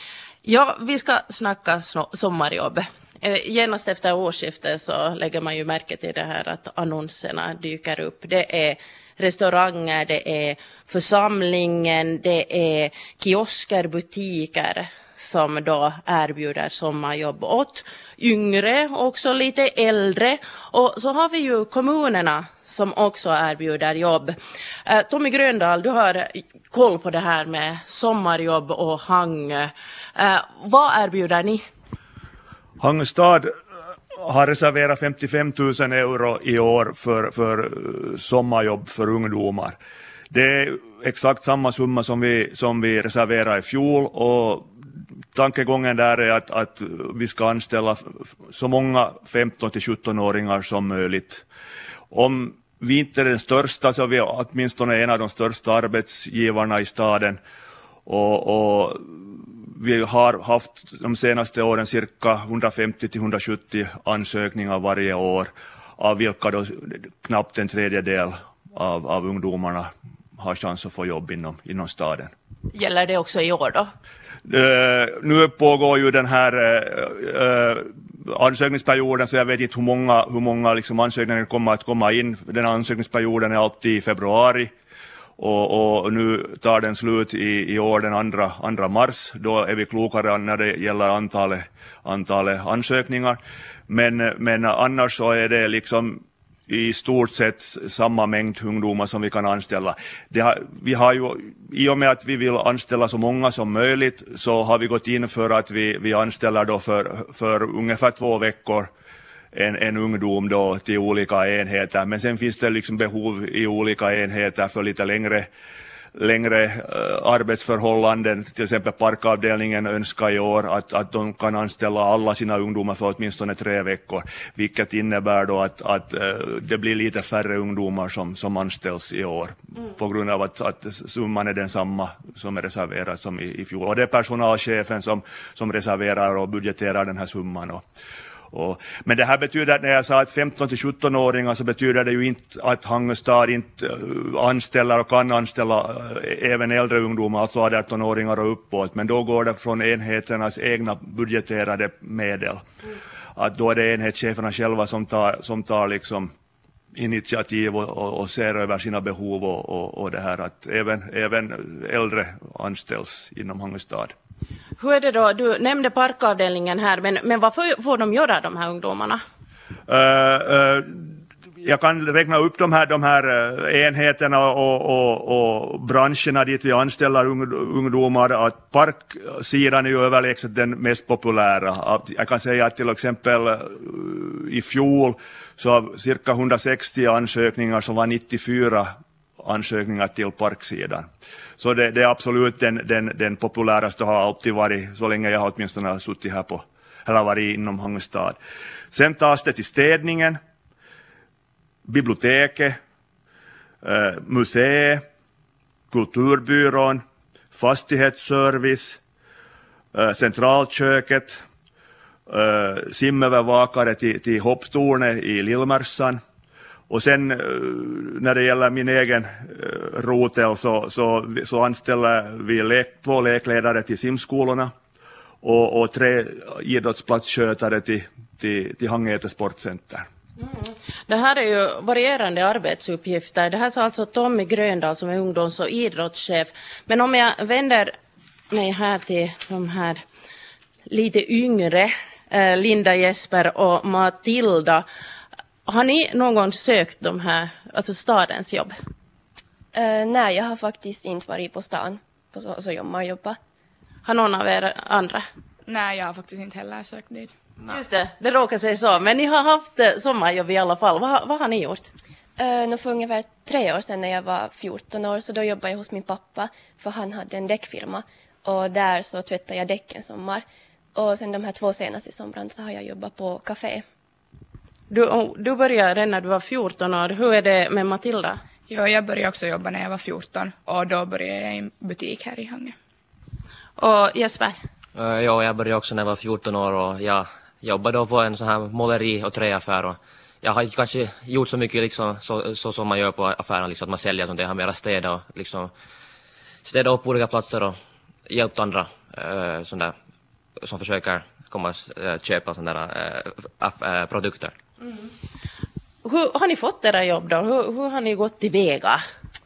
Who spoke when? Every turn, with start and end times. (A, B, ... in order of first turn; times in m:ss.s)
0:00.4-0:31.6 A
0:32.8-0:33.5 B
0:34.2-0:39.8 B
0:40.3-0:44.7 B
0:45.3-0:51.4 B
0:52.1-0:57.4 B
0:58.1-1:12.3 B
1:12.7-1:13.9 A
1:14.4-1:24.7 B
1:25.4-1:48.9 B
1:49.5-1:55.5 B
1:56.1-2:17.8 B
2:18.5-2:32.6 B
2:33.4-2:36.3 B
2:36.9-2:44.1 B
2:44.8-2:49.2 A
2:49.9-2:51.1 B
2:51.6-3:11.1 B
3:11.6-3:18.4 B
3:18.9-3:20.4 B
3:21.9-3:22.8 B
3:23.8-3:25.0 B
3:25.9-3:27.0 B
3:27.5-3:29.0 B
3:29.9-3:31.4 B
3:32.3-3:36.2 B
3:36.9-3:44.7 B
3:45.4-3:50.1 B
3:50.4-3:57.9 A
3:58.5-4:00.0 A
4:00.9-4:04.8 A
4:05.6-4:08.7 A
4:09.7-4:13.4 C
4:14.0-4:15.2 A
4:15.7-4:17.3 D
4:17.7-4:21.9 A
4:22.4-4:30.4 C
4:31.0-4:33.8 C
4:34.9-4:38.4 A
4:38.7-4:42.7 D
4:43.8-4:44.6 A
4:44.9-4:55.7 E
4:56.6-4:59.9 E
5:00.6-5:04.5 E
5:06.0-5:09.0 A